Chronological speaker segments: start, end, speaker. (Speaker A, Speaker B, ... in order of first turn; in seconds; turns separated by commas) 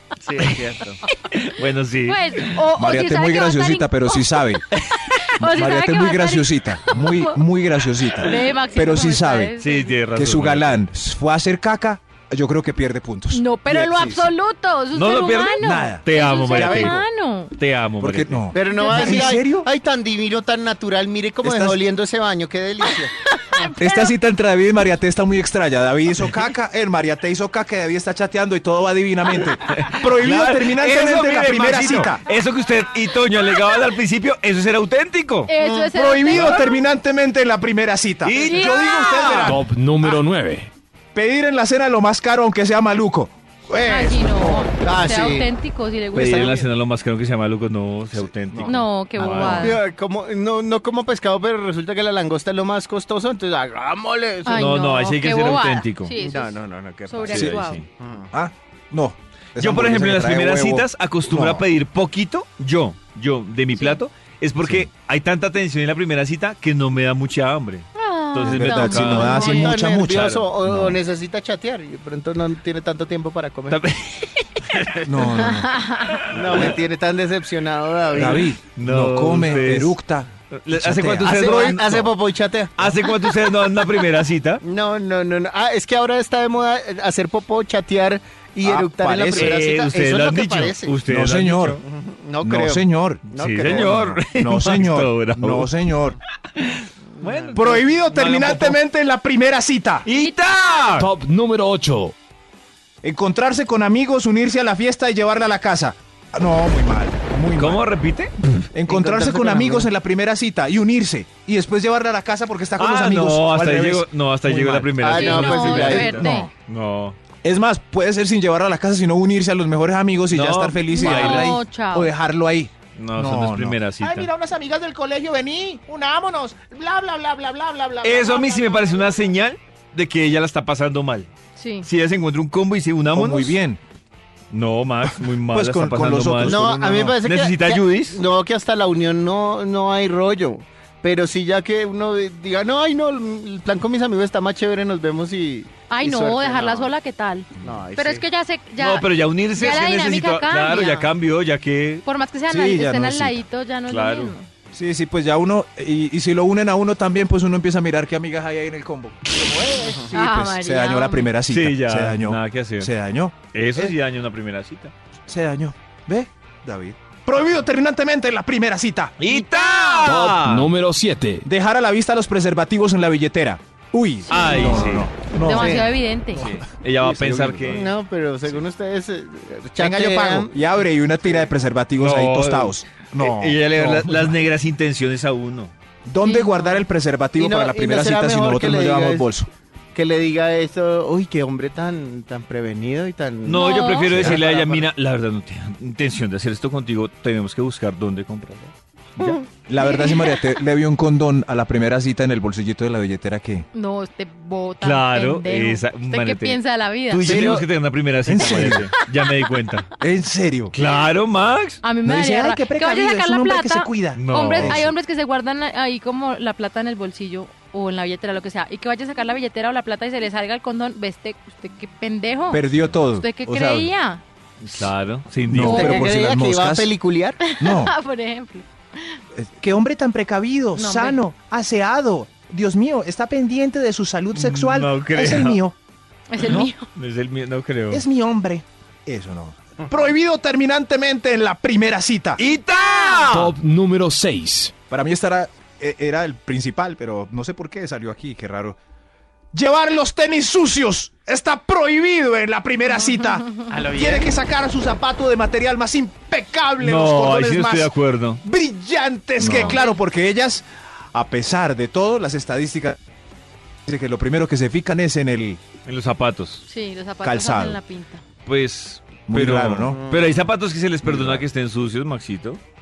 Speaker A: 0.2-1.0, Speaker B: 1.4-2.5, Speaker C: 2.0-7.4, Speaker D: 2.8-4.6, Speaker D: 5.4-9.6, Speaker C: 8.1-9.9, Speaker B: 9.6-10.8, Speaker D: 10.1-14.3, Speaker C: 13.3-17.5, Speaker B: 14.9-17.0, Speaker D: 15.6-17.0, Speaker B: 17.5-18.4, Speaker D: 18.0-19.7, Speaker A: 18.5-23.1, Speaker C: 18.7-19.3, Speaker D: 21.4-21.8, Speaker C: 23.3-24.1, Speaker D: 23.8-32.2, Speaker B: 29.7-35.5, Speaker C: 35.5-36.7, Speaker A: 35.6-35.9, Speaker D: 35.9-40.1, Speaker B: 38.2-39.6, Speaker C: 38.4-39.4, Speaker E: 39.4-40.7, Speaker D: 41.1-44.6, Speaker C: 43.8-46.7, Speaker A: 44.7-45.5, Speaker B: 46.1-49.8, Speaker D: 48.1-49.5, Speaker C: 48.6-49.8, Speaker A: 49.5-54.7, Speaker C: 54.4-57.8, Speaker B: 54.5-56.1, Speaker A: 56.2-58.3, Speaker D: 57.3-57.6, Speaker B: 57.3-57.9, Speaker D: 58.3-61.7, Speaker B: 59.6-69.5, Speaker D: 64.6-64.9, Speaker C: 68.0-69.7, Speaker D: 68.4-71.0, Speaker A: 69.3-73.8, Speaker B: 70.1-70.4, Speaker B: 73.7-75.1, Speaker D: 75.0-75.8, Speaker C: 75.4-76.2, Speaker A: 76.3-78.5, Speaker D: 78.1-82.0, Speaker B: 78.7-80.0, Speaker A: 79.5-79.8, Speaker B: 80.5-82.1, Speaker A: 81.2-83.7, Speaker B: 82.8-84.6, Speaker A: 84.6-90.9, Speaker D: 88.6-89.6, Speaker B: 89.3-91.8, Speaker D: 91.0-91.8, Speaker A: 91.8-94.1, Speaker D: 92.4-96.2, Speaker B: 93.3-95.7, Speaker B: 96.5-98.8, Speaker A: 97.2-97.8, Speaker D: 97.5-100.1, Speaker B: 100.0-101.1, Speaker E: 100.9-102.1, Speaker D: 103.0-107.8, Speaker B: 107.5-108.3, Speaker D: 108.7-114.9, Speaker A: 108.9-109.9, Speaker B: 112.8-117.2, Speaker A: 115.0-116.2, Speaker C: 115.1-116.5, Speaker D: 115.8-116.5, Speaker D: 117.4-129.3, Speaker B: 120.3-121.5, Speaker C: 120.9-122.1, Speaker B: 123.0-124.3, Speaker B: 128.0-131.3, Speaker C: 131.6-131.9, Speaker B: 131.8-133.6, Speaker D: 133.1-133.8, Speaker B: 134.5-136.7, Speaker D: 135.5-137.2, Speaker A: 136.4-146.9, Speaker B: 137.2-138.2, Speaker C: 145.9-151.1, Speaker A: 147.6-148.2, Speaker B: 148.8-152.0, Speaker C: 152.0-154.5, Speaker D: 152.5-153.4, Speaker B: 153.9-154.3, Speaker D: 154.7-163.9, Speaker C: 160.1-161.3, Speaker B: 161.5-162.9, Speaker B: 163.5-164.9, Speaker D: 165.3-169.1, Speaker B: 169.2-170.7, Speaker C: 169.3-170.1, Speaker E: 170.0-171.4, Speaker D: 171.4-177.8, Speaker B: 174.3-175.1, Speaker C: 174.3-176.4, Speaker A: 175.6-175.8, Speaker B: 176.3-177.9, Speaker A: 177.7-180.5, Speaker D: 179.8-184.4, Speaker B: 182.0-185.7, Speaker D: 186.1-189.5, Speaker C: 186.2-186.8, Speaker A: 187.4-189.3, Speaker A: 189.9-194.8, Speaker B: 193.4-198.7, Speaker C: 193.5-194.1, Speaker D: 194.1-194.4, Speaker D: 199.2-203.7, Speaker C: 203.7-207.3, Speaker B: 204.8-209.9, Speaker A: 207.3-207.6, Speaker D: 207.3-207.6, Speaker D: 208.2-208.9, Speaker D: 210.0-210.7, Speaker B: 210.7-211.8, Speaker C: 211.8-224.2, Speaker D: 212.0-214.9, Speaker B: 214.1-214.9, Speaker D: 222.5-223.9, Speaker B: 224.6-225.8, Speaker D: 225.5-226.9, Speaker A: 225.6-227.4, Speaker C: 225.6-226.0, Speaker C: 227.4-229.2, Speaker D: 227.6-227.9, Speaker D: 229.3-235.7, Speaker C: 230.8-231.2, Speaker B: 234.3-235.6, Speaker C: 236.3-236.9, Speaker B: 236.4-238.0, Speaker D: 237.9-242.4, Speaker B: 242.4-243.6, Speaker C: 242.9-243.2, Speaker E: 243.3-244.7, Speaker D: 244.9-248.8, Speaker D: 249.5-257.9, Speaker A: 253.7-254.3, Speaker B: 256.8-258.4, Speaker D: 258.4-263.0, Speaker B: 259.4-259.8, Speaker D: 263.9-265.6, Speaker B: 265.9-266.6, Speaker C: 266.7-268.2, Speaker D: 267.2-267.8, Speaker B: 268.4-272.6, Speaker D: 269.3-270.0, Speaker A: 269.9-270.4, Speaker D: 271.0-271.4